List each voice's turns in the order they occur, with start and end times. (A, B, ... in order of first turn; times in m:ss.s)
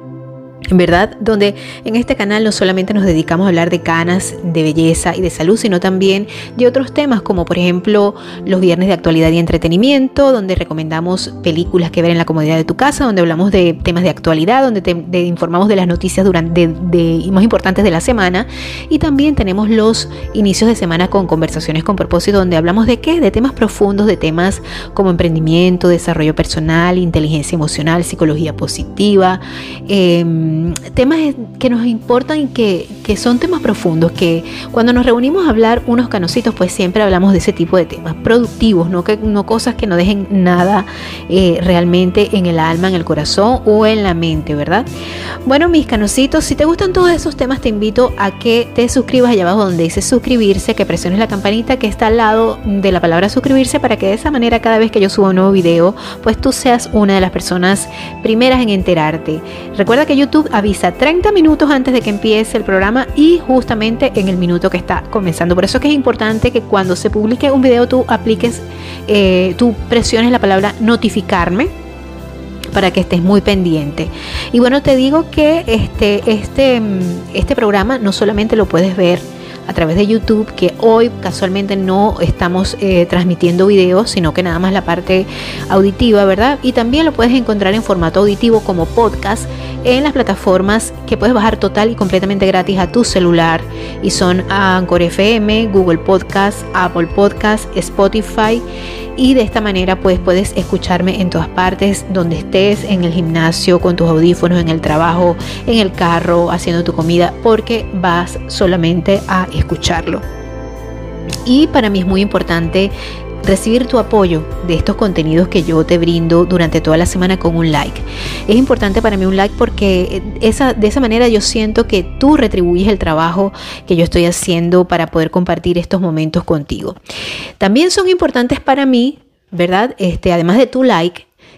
0:00.7-0:44.9 A
0:45.5-1:11.7 A
1:12.7-1:38.6 A
1:39.2-1:50.2 A
1:51.5-1:52.9 A
1:53.4-2:07.0 A
2:07.6-2:11.3 A